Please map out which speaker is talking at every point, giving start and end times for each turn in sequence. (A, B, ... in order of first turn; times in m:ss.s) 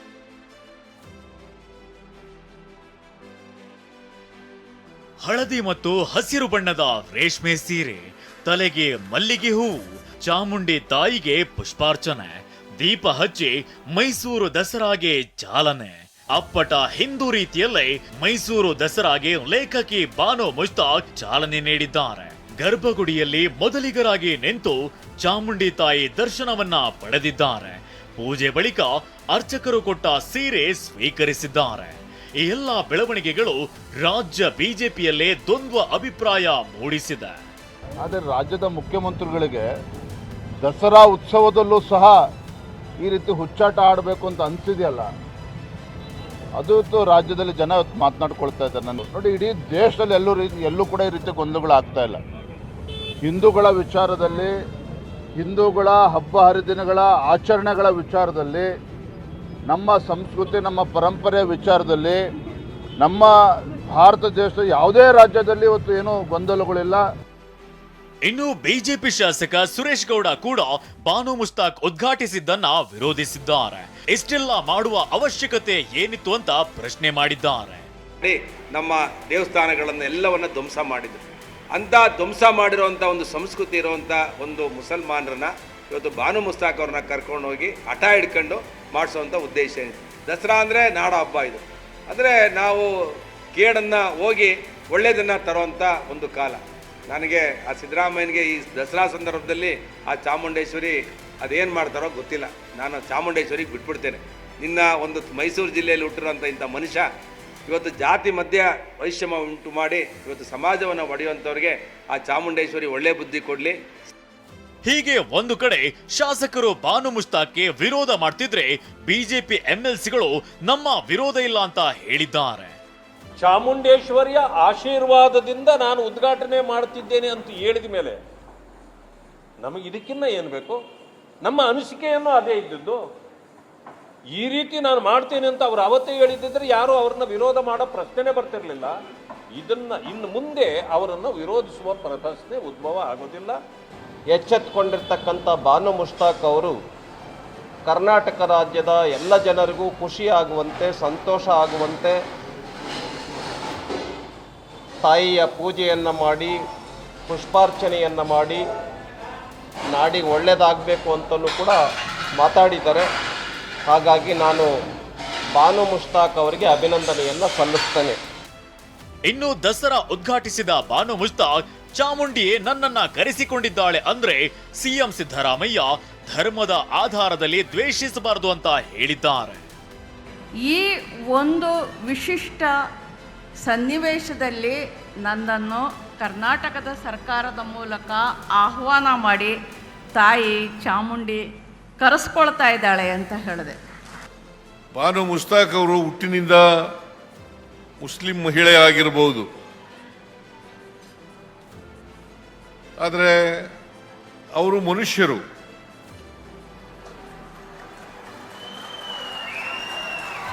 0:05.2-0:37.4 A
0:38.0-0:39.6 B
0:40.6-0:42.1 B
0:43.0-0:45.1 B
0:46.6-0:52.2 B
0:53.2-0:54.5 B
0:55.4-0:58.7 B
0:59.7-1:02.2 B
1:03.0-1:03.3 B
1:03.9-1:07.0 B
1:08.2-1:17.8 A
1:18.2-1:32.8 C
1:33.5-1:47.0 C
1:47.7-1:53.7 C
1:54.8-2:02.8 A
2:03.4-2:08.2 D
2:09.6-2:10.8 D
2:11.4-2:13.0 D
2:14.3-2:18.9 D
2:19.5-2:23.6 D
2:24.3-2:26.8 E
2:27.8-2:32.2 E
2:35.0-2:36.5 E
2:37.3-2:38.6 E
2:39.9-2:41.8 E
2:42.4-2:43.1 E
2:43.8-2:44.7 E
2:45.6-2:48.2 E
2:49.3-2:59.6 A
3:00.7-3:02.7 F
3:03.6-3:04.8 F
3:05.3-3:09.5 F
3:10.2-3:11.4 F
3:12.0-3:13.7 F
3:14.9-3:16.6 G
3:18.0-3:19.5 G
3:23.0-3:23.7 G
3:24.5-3:25.4 G